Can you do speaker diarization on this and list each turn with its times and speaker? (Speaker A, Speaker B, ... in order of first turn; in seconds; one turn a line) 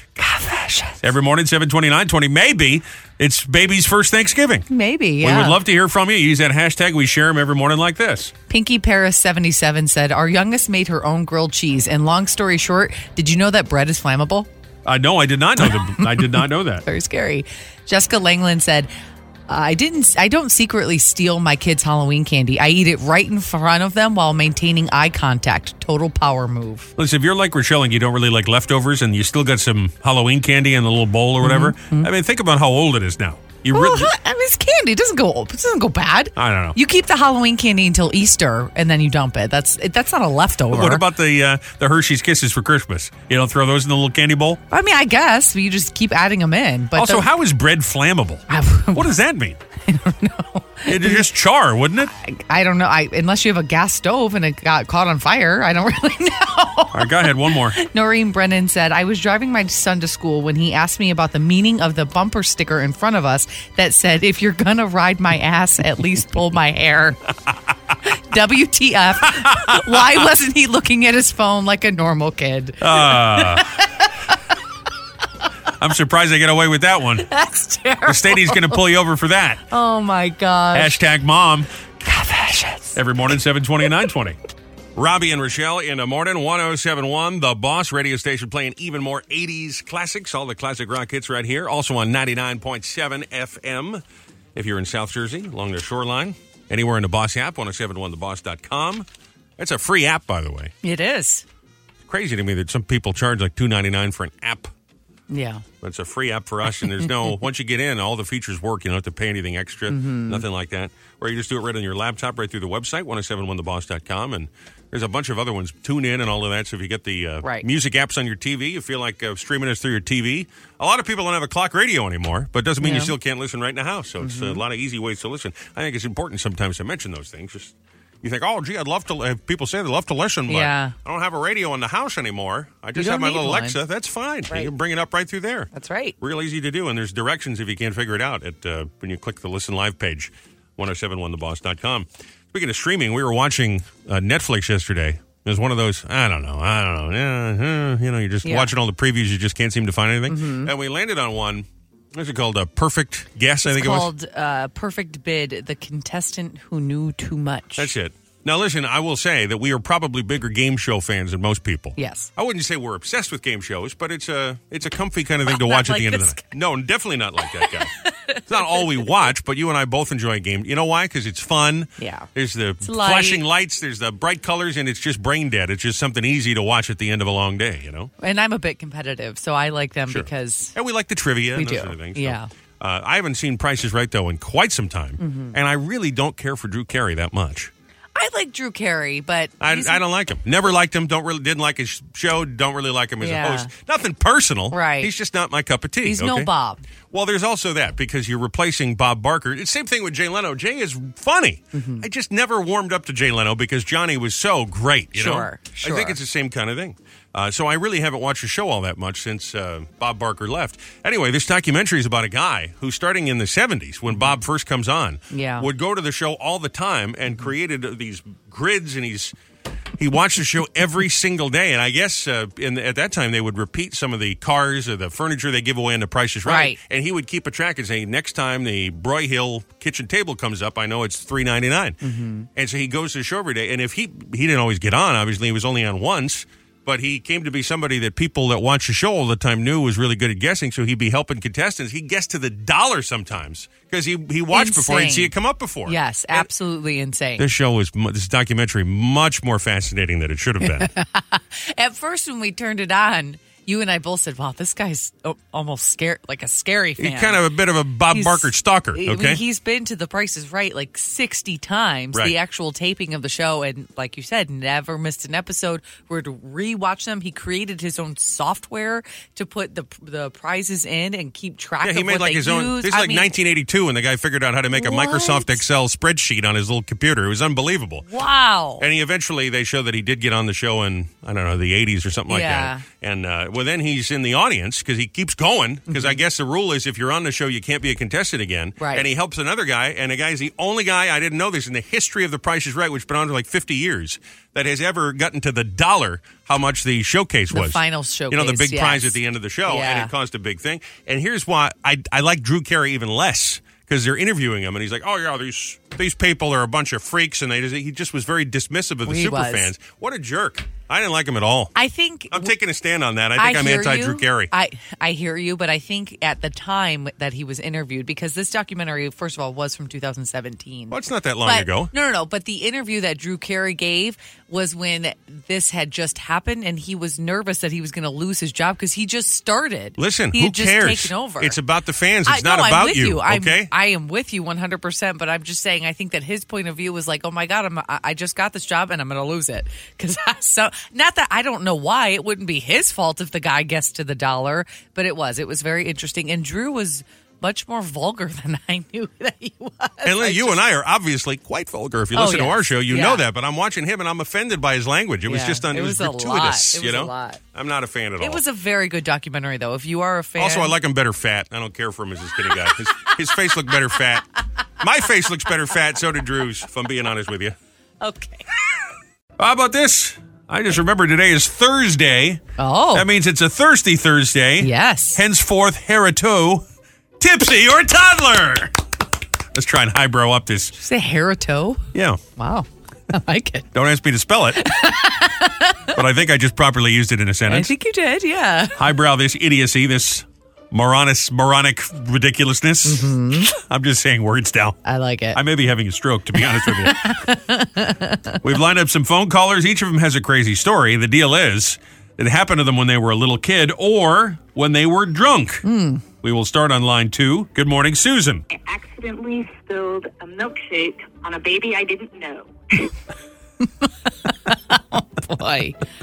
Speaker A: 0.2-1.0
Speaker B: 1.0-4.7
Speaker A: 4.7-5.6
Speaker B: 5.2-8.3
Speaker A: 8.5-14.5
Speaker B: 14.8-16.8
Speaker A: 15.6-18.9
Speaker A: 19.5-26.9
Speaker B: 27.0-34.1
Speaker A: 31.4-32.1
Speaker A: 33.7-41.0
Speaker B: 36.4-36.8
Speaker B: 40.7-44.6
Speaker A: 44.7-47.3
Speaker B: 47.0-49.6
Speaker A: 48.5-49.1
Speaker A: 49.9-51.3
Speaker B: 50.9-52.1
Speaker A: 52.1-67.2
Speaker B: 56.9-57.8
Speaker A: 68.0-74.1
Speaker B: 69.4-69.8
Speaker B: 72.8-73.7
Speaker B: 75.8-77.3
Speaker A: 77.2-78.8
Speaker B: 78.0-79.6
Speaker A: 79.7-81.0
Speaker B: 80.7-81.7
Speaker A: 82.0-83.0
Speaker B: 82.9-84.4
Speaker B: 85.0-94.0
Speaker B: 94.5-99.0
Speaker B: 99.6-100.7
Speaker A: 100.8-101.4
Speaker B: 102.1-104.7
Speaker A: 105.3-105.6
Speaker B: 105.8-135.7
Speaker A: 109.9-110.4
Speaker A: 122.8-123.1
Speaker A: 124.2-124.6
Speaker A: 130.5-130.9
Speaker A: 132.9-133.8
Speaker A: 135.7-136.1
Speaker B: 136.2-154.1
Speaker A: 148.4-148.7
Speaker A: 150.3-150.7
Speaker A: 153.7-157.9
Speaker B: 157.8-167.9
Speaker A: 162.0-162.3
Speaker A: 165.5-166.5
Speaker A: 167.4-169.1
Speaker B: 168.5-178.1
Speaker A: 172.0-172.3
Speaker A: 172.8-173.4
Speaker A: 178.2-180.7
Speaker B: 180.1-187.7
Speaker A: 181.5-182.5
Speaker A: 185.2-185.6
Speaker A: 188.1-190.0
Speaker B: 189.6-196.5
Speaker A: 193.2-193.7
Speaker A: 194.7-195.1
Speaker A: 196.0-196.8
Speaker B: 197.1-219.3
Speaker A: 201.7-202.0
Speaker A: 205.1-206.2
Speaker A: 215.3-215.7
Speaker B: 220.0-232.0
Speaker A: 226.4-226.8
Speaker A: 232.0-232.5
Speaker B: 232.5-246.5
Speaker A: 244.5-245.3
Speaker A: 245.8-247.4
Speaker B: 247.4-250.9
Speaker A: 250.6-257.4
Speaker B: 257.0-259.4
Speaker A: 258.1-273.3
Speaker B: 271.8-278.1
Speaker A: 274.7-275.6
Speaker A: 278.1-278.8
Speaker B: 278.8-311.7
Speaker A: 282.3-282.8
Speaker A: 285.9-286.2
Speaker A: 288.8-289.1
Speaker A: 297.5-300.1
Speaker A: 309.1-309.7
Speaker A: 311.8-312.5
Speaker B: 312.3-314.5
Speaker A: 313.4-331.6
Speaker B: 320.9-321.9
Speaker B: 330.0-333.7
Speaker A: 332.2-350.6
Speaker B: 350.0-358.4
Speaker A: 352.1-353.2
Speaker A: 355.3-357.4
Speaker A: 358.2-360.7
Speaker B: 360.4-364.2
Speaker A: 362.5-363.1
Speaker B: 364.8-367.6
Speaker A: 368.0-368.4
Speaker B: 369.4-372.4
Speaker A: 372.6-373.1
Speaker B: 372.9-376.6
Speaker A: 374.6-375.2
Speaker B: 377.2-378.8
Speaker B: 379.5-380.8
Speaker A: 380.8-381.8
Speaker B: 381.9-382.2
Speaker A: 382.4-383.7
Speaker B: 383.7-384.6
Speaker A: 384.6-385.9
Speaker B: 385.9-387.7
Speaker A: 387.5-388.8
Speaker B: 388.8-394.8
Speaker A: 392.8-393.5
Speaker A: 394.8-395.4
Speaker B: 395.3-397.1
Speaker A: 396.4-398.4
Speaker B: 398.4-405.6
Speaker A: 405.6-406.0
Speaker B: 406.2-408.4
Speaker C: 408.5-412.9
Speaker A: 413.8-415.8